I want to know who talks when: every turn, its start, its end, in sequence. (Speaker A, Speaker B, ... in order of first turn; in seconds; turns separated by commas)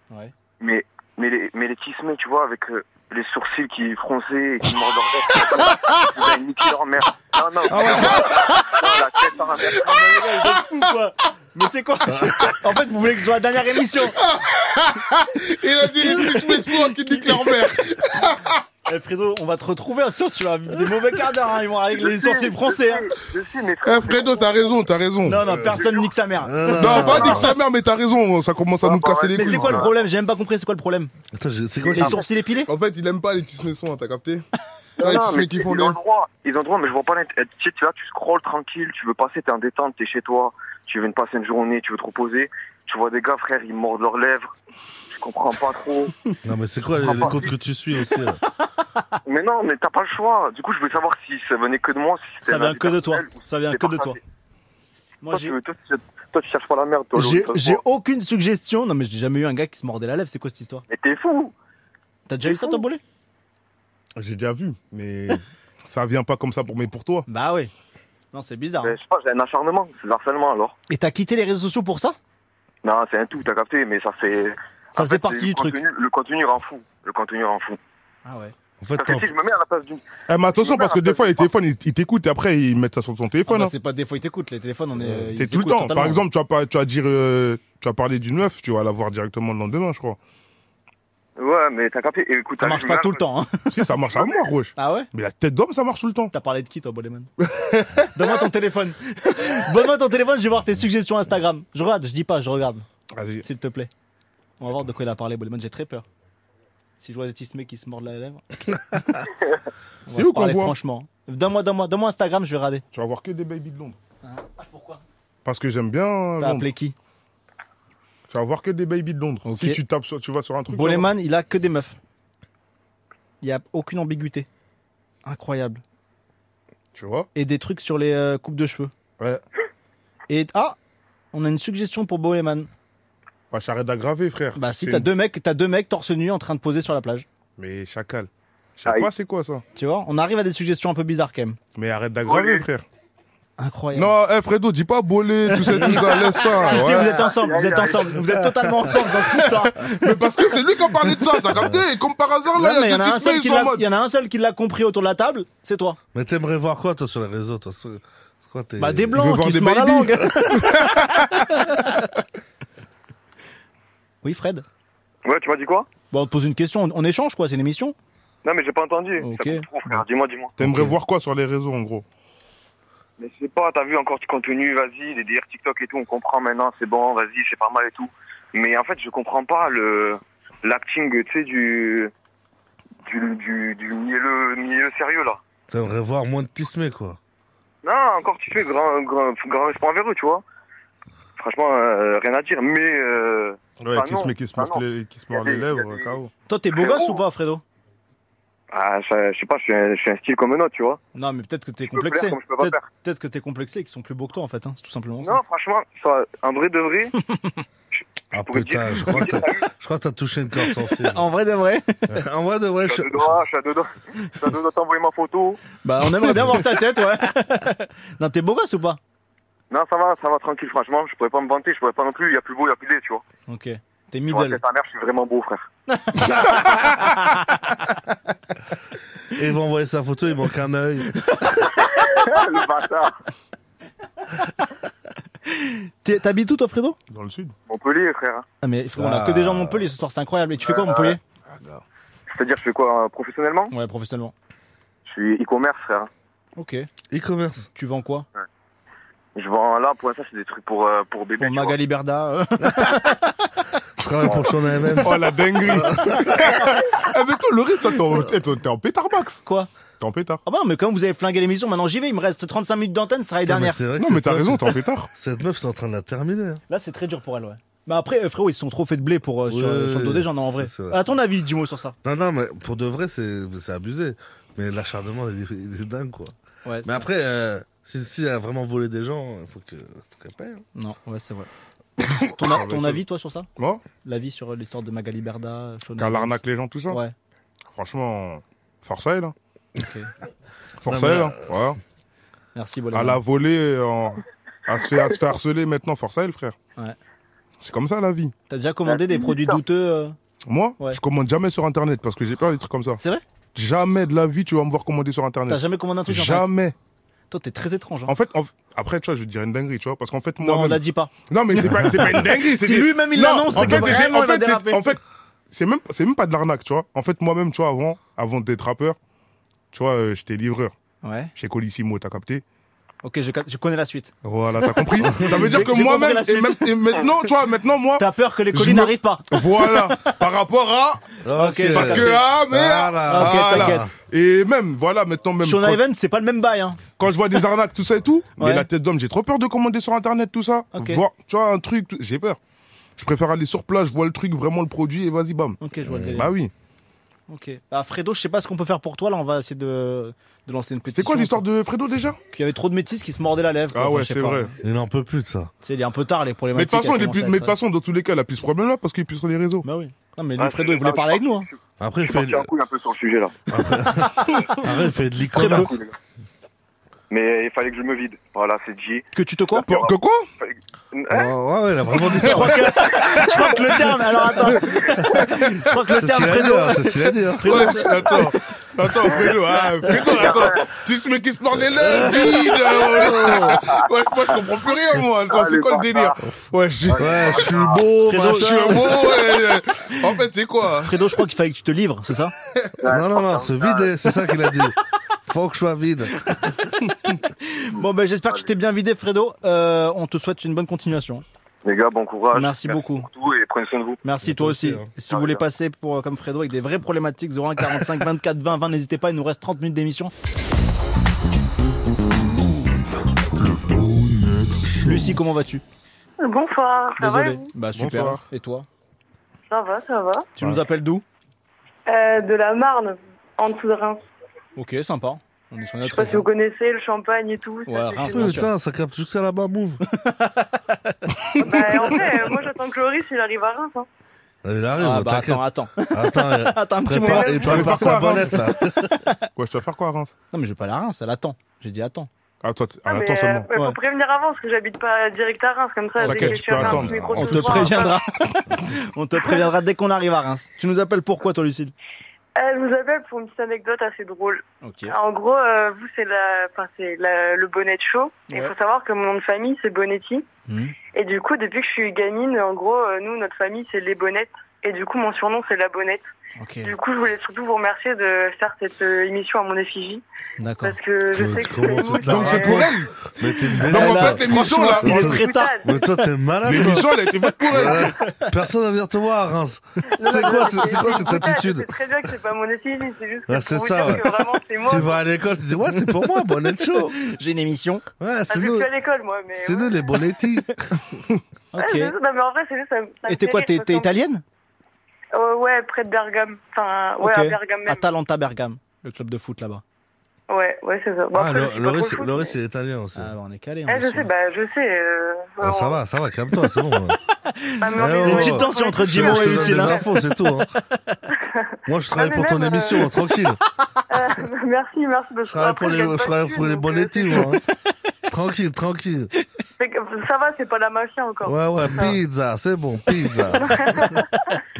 Speaker A: 0.6-10.0, Speaker B: 7.7-8.2, Speaker C: 7.8-8.8, Speaker D: 9.8-14.2, Speaker C: 14.2-18.6, Speaker D: 16.0-16.5, Speaker D: 17.0-17.3, Speaker D: 18.9-23.1, Speaker A: 21.9-24.9, Speaker C: 23.8-25.7, Speaker D: 25.2-27.5, Speaker A: 25.7-26.1, Speaker B: 26.4-27.5, Speaker C: 26.8-29.9, Speaker A: 28.8-29.9, Speaker D: 29.3-31.1, Speaker B: 31.3-32.2, Speaker D: 31.9-32.7, Speaker C: 32.7-34.4, Speaker A: 35.0-44.5, Speaker C: 35.0-36.0, Speaker A: 45.1-46.1, Speaker B: 46.4-48.4, Speaker A: 47.2-47.4, Speaker A: 49.3-54.2, Speaker D: 52.5-54.2, Speaker D: 55.2-55.5, Speaker A: 55.3-57.8, Speaker D: 57.1-60.9, Speaker A: 60.9-61.5, Speaker D: 62.3-63.0, Speaker A: 62.4-62.8, Speaker C: 64.2-67.3, Speaker D: 67.3-67.7, Speaker D: 68.3-69.0, Speaker A: 68.8-70.8, Speaker D: 70.9-72.2, Speaker A: 72.8-77.8, Speaker D: 74.9-75.8, Speaker D: 78.2-78.5, Speaker B: 78.8-79.3, Speaker A: 79.0-81.5, Speaker C: 80.3-83.7, Speaker D: 83.5-86.2, Speaker C: 85.0-90.2, Speaker A: 91.4-93.2, Speaker D: 92.6-93.9, Speaker C: 93.7-96.3, Speaker D: 94.8-95.1, Speaker D: 96.3-97.3, Speaker C: 97.4-98.1, Speaker D: 98.1-102.9, Speaker C: 103.1-103.5, Speaker D: 103.4-103.9, Speaker D: 104.6-106.0, Speaker D: 107.0-109.3, Speaker D: 110.1-112.8, Speaker C: 110.1-110.8, Speaker C: 112.9-114.0, Speaker D: 114.2-115.0, Speaker C: 115.5-116.7, Speaker D: 116.4-117.0, Speaker C: 118.3-121.1, Speaker D: 119.5-119.8, Speaker D: 120.7-122.0, Speaker D: 123.4-124.5, Speaker D: 125.2-125.8, Speaker C: 127.0-127.3, Speaker D: 127.3-128.9, Speaker D: 130.3-130.8, Speaker D: 131.3-132.7, Speaker C: 133.5-135.1, Speaker D: 134.6-137.3, Speaker C: 137.6-139.6, Speaker D: 139.8-141.6, Speaker C: 141.8-142.8, Speaker A: 142.2-142.7, Speaker D: 143.6-144.1, Speaker C: 143.9-147.3, Speaker D: 145.5-150.2, Speaker A: 146.4-148.1, Speaker C: 149.3-153.9, Speaker B: 151.6-151.8, Speaker D: 152.6-156.0, Speaker B: 156.1-159.2, Speaker D: 158.8-162.0, Speaker C: 159.2-161.6, Speaker D: 164.2-164.7, Speaker A: 165.2-165.9, Speaker D: 166.1-167.9, Speaker A: 168.4-170.5, Speaker D: 169.2-169.7, Speaker C: 170.6-172.1, Speaker D: 170.6-170.9, Speaker A: 173.2-182.1, Speaker A: 183.1-185.4, Speaker B: 185.7-187.2, Speaker A: 187.8-190.4, Speaker A: 191.4-196.2, Speaker C: 193.8-196.3, Speaker D: 196.5-197.6, Speaker A: 196.7-197.2, Speaker A: 198.7-201.0, Speaker D: 201.1-205.4, Speaker A: 201.9-202.9, Speaker A: 205.2-207.1, Speaker B: 208.3-211.3, Speaker A: 208.3-209.7, Speaker D: 211.0-212.0, Speaker B: 212.1-213.4, Speaker A: 212.8-215.6, Speaker D: 215.8-219.0, Speaker A: 219.7-223.2, Speaker D: 223.5-224.6, Speaker A: 224.3-225.7, Speaker D: 226.1-227.6, Speaker B: 229.3-231.1, Speaker A: 231.8-233.2, Speaker D: 235.5-237.0, Speaker C: 237.1-237.5, Speaker A: 237.7-238.4, Speaker D: 238.6-241.2, Speaker B: 239.0-239.9, Speaker A: 240.7-241.2, Speaker C: 241.5-241.8, Speaker A: 242.3-243.7, Speaker D: 243.7-244.3, Speaker A: 245.1-246.1, Speaker D: 246.6-246.9, Speaker B: 247.1-247.7, Speaker D: 247.7-248.3, Speaker A: 249.4-251.8, Speaker D: 251.4-253.5, Speaker B: 254.0-256.4, Speaker A: 254.2-254.5, Speaker C: 255.0-259.4, Speaker C: 260.0-260.4, Speaker D: 260.5-263.8, Speaker B: 263.5-266.6, Speaker C: 264.0-265.1, Speaker D: 266.7-272.0, Speaker B: 269.5-271.1, Speaker B: 272.0-276.3, Speaker D: 276.6-277.1, Speaker B: 276.8-280.6, Speaker D: 280.8-281.5, Speaker D: 282.1-283.5, Speaker C: 282.4-283.0, Speaker C: 283.6-283.8, Speaker D: 284.0-287.1, Speaker C: 286.0-287.0, Speaker C: 287.7-289.3, Speaker D: 289.8-290.1, Speaker C: 290.8-291.8, Speaker B: 290.9-291.5, Speaker D: 292.6-293.2, Speaker C: 292.9-296.6, Speaker C: 297.6-298.3, Speaker D: 298.5-300.1, Speaker C: 300.5-303.0, Speaker C: 303.6-306.8, Speaker D: 305.5-306.5, Speaker D: 307.3-308.1, Speaker C: 308.1-315.0, Speaker D: 310.4-314.9, Speaker C: 315.5-319.0, Speaker C: 319.7-320.7, Speaker D: 321.0-321.3, Speaker C: 321.4-322.4, Speaker D: 323.0-324.1, Speaker C: 324.2-331.2, Speaker D: 324.6-326.8, Speaker D: 328.0-330.0, Speaker B: 331.2-333.9, Speaker D: 331.4-332.3, Speaker C: 331.7-335.8, Speaker D: 333.1-333.9, Speaker D: 335.4-336.8, Speaker C: 337.0-342.4, Speaker D: 338.4-338.7, Speaker D: 340.7-341.0, Speaker C: 343.0-345.6, Speaker D: 345.6-346.3, Speaker C: 346.1-346.5, Speaker D: 347.3-351.4, Speaker C: 350.9-352.2, Speaker D: 352.3-354.5, Speaker C: 353.7-354.5, Speaker B: 354.6-355.5, Speaker D: 355.6-357.6, Speaker C: 356.5-359.7, Speaker D: 359.6-361.5, Speaker A: 360.4-363.4, Speaker B: 361.8-362.5, Speaker B: 363.5-365.8, Speaker D: 363.8-364.3, Speaker D: 365.3-365.8, Speaker A: 365.6-365.9, Speaker A: 367.1-369.1, Speaker D: 369.1-369.7, Speaker C: 369.6-370.3, Speaker A: 369.7-371.3, Speaker B: 371.1-372.7, Speaker C: 372.1-373.4, Speaker D: 372.2-378.3, Speaker C: 374.5-375.7, Speaker B: 376.0-378.2, Speaker C: 377.4-387.5, Speaker A: 380.0-380.7, Speaker B: 380.0-380.3, Speaker B: 381.8-383.6, Speaker A: 383.3-383.7, Speaker A: 385.3-386.2, Speaker A: 386.9-387.8, Speaker B: 387.0-389.1, Speaker D: 388.0-389.1, Speaker C: 388.2-390.9, Speaker D: 390.8-392.3, Speaker A: 392.8-393.9, Speaker B: 392.8-394.8, Speaker B: 395.3-396.5, Speaker D: 397.4-401.2, Speaker A: 401.6-404.0, Speaker D: 402.3-403.1, Speaker D: 404.0-410.1, Speaker B: 404.2-404.9, Speaker A: 405.1-405.4, Speaker D: 414.8-415.6, Speaker E: 416.2-417.5, Speaker D: 417.0-418.7, Speaker C: 417.8-418.2, Speaker E: 419.5-420.3, Speaker D: 420.4-421.0, Speaker E: 421.9-424.0, Speaker D: 424.6-426.3, Speaker E: 425.9-428.4, Speaker D: 427.7-428.5, Speaker B: 428.1-429.8, Speaker D: 429.9-430.9, Speaker E: 431.4-433.9, Speaker B: 434.4-438.9, Speaker D: 434.8-439.2, Speaker C: 437.1-438.3, Speaker C: 439.4-440.1, Speaker D: 440.3-442.1, Speaker C: 442.4-443.5, Speaker E: 442.9-447.9, Speaker C: 446.0-447.7, Speaker B: 446.0-447.9, Speaker D: 446.1-446.3, Speaker D: 447.3-451.7, Speaker E: 452.4-460.3, Speaker D: 454.6-454.9, Speaker D: 460.5-460.8, Speaker E: 460.9-466.1, Speaker D: 466.4-466.8, Speaker E: 466.6-470.0, Speaker D: 470.4-470.8, Speaker E: 470.6-472.6, Speaker B: 471.1-474.3, Speaker C: 472.0-472.9, Speaker D: 472.2-472.7, Speaker D: 473.6-475.6, Speaker C: 473.7-475.3, Speaker B: 474.8-476.9, Speaker E: 475.0-475.8, Speaker C: 476.4-477.9, Speaker B: 477.5-481.7, Speaker D: 477.7-478.1, Speaker E: 480.0-485.0, Speaker D: 480.1-481.2, Speaker B: 483.3-487.0, Speaker D: 487.0-487.8, Speaker B: 488.0-488.7, Speaker E: 488.3-490.0, Speaker B: 489.4-490.9, Speaker D: 491.5-491.9, Speaker E: 491.6-493.9, Speaker D: 493.1-494.2, Speaker E: 495.1-497.9, Speaker D: 497.0-499.6, Speaker E: 500.3-502.4, Speaker B: 501.1-503.1, Speaker D: 503.0-504.1, Speaker E: 503.7-505.8, Speaker B: 505.4-507.0, Speaker D: 507.3-509.9, Speaker E: 507.6-509.8, Speaker B: 507.8-510.5, Speaker B: 511.7-513.4, Speaker E: 511.9-512.9, Speaker E: 513.9-517.4, Speaker B: 515.3-517.4, Speaker B: 518.1-519.1, Speaker E: 519.6-522.0, Speaker B: 521.2-523.9, Speaker E: 523.4-524.0